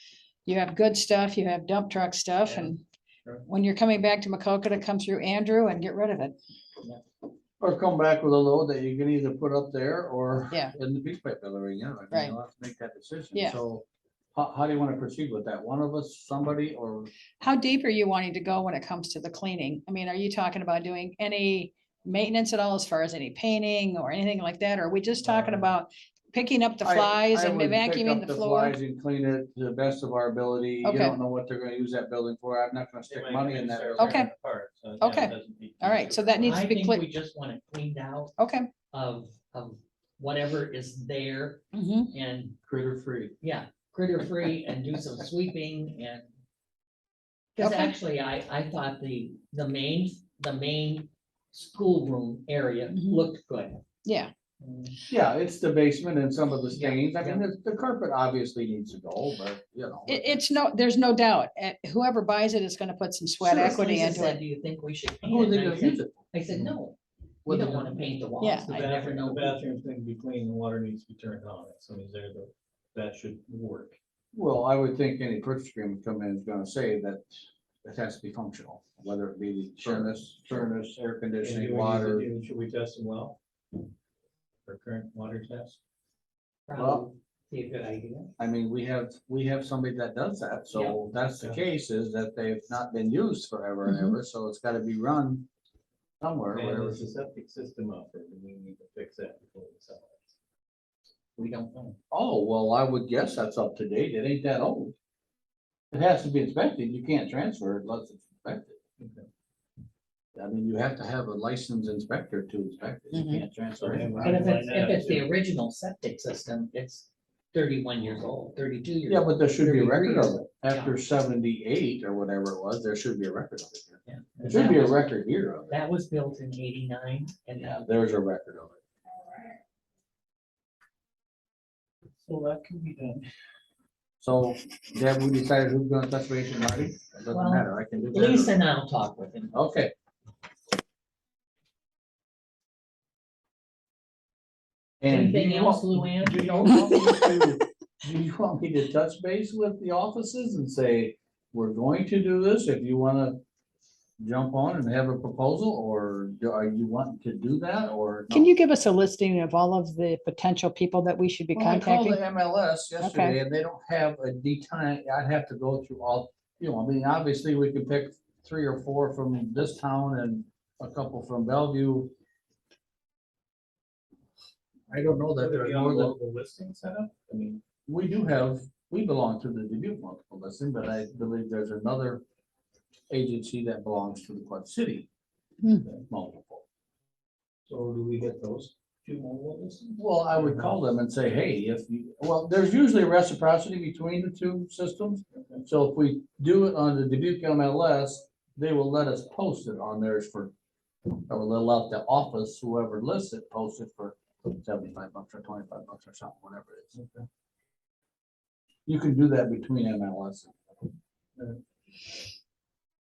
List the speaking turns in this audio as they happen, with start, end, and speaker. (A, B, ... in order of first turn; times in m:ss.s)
0:00.5-0:02.8 A
0:02.4-0:02.7 B
0:03.4-0:06.4 A
0:07.6-0:17.1 C
0:17.4-0:28.8 A
0:25.2-0:25.7 B
0:26.8-0:34.3 C
0:30.8-0:31.2 A
0:33.0-0:36.6 B
0:34.0-0:34.3 A
0:35.0-0:37.0 A
0:36.4-0:38.3 D
0:38.4-0:38.7 A
0:38.9-0:42.6 D
0:41.7-0:42.1 A
0:42.7-0:43.4 C
0:43.4-0:46.3 D
0:47.6-0:53.8 D
0:47.6-0:47.9 A
0:52.9-0:53.2 A
0:54.0-0:54.3 A
0:54.6-0:54.9 D
0:55.1-1:00.6 C
0:56.7-0:57.4 D
1:00.1-1:04.4 A
1:03.4-1:09.6 D
1:05.2-1:06.3 C
1:07.4-1:08.0 C
1:08.4-1:08.9 A
1:08.7-1:14.0 B
1:14.3-1:22.3 C
1:19.8-1:20.6 B
1:21.4-1:23.4 B
1:24.7-1:25.8 B
1:26.7-1:28.3 D
1:26.8-1:27.0 C
1:28.4-1:35.5 C
1:30.7-1:31.0 D
1:33.9-1:34.2 A
1:36.2-1:37.1 C
1:36.5-1:40.3 B
1:41.4-1:41.9 D
1:42.1-1:44.9 C
1:45.9-1:48.8 C
1:49.0-1:49.3 B
1:50.4-1:54.3 C
1:53.1-1:53.4 A
1:53.8-1:55.3 B
1:54.2-2:00.9 D
1:59.1-2:05.8 C
2:04.0-2:05.1 D
2:04.4-2:04.6 B
2:05.7-2:07.8 D
2:07.6-2:08.8 C
2:12.2-2:13.3 B
2:14.2-2:18.6 C
2:17.3-2:19.6 D
2:19.5-2:19.9 C
2:25.0-2:33.4 C
2:25.1-2:26.8 D
2:34.2-2:38.5 C
2:38.3-2:42.2 A
2:41.5-2:52.1 C
2:43.0-2:43.4 A
2:54.9-2:56.2 C
2:55.4-2:57.6 B
2:57.9-3:02.2 C
3:03.1-3:05.1 C
3:05.6-3:05.9 A
3:05.9-3:06.6 C
3:07.7-3:10.8 B
3:10.0-3:20.5 C
3:15.3-3:15.6 B
3:21.3-3:26.9 C
3:27.0-3:27.2 B
3:28.9-3:30.6 C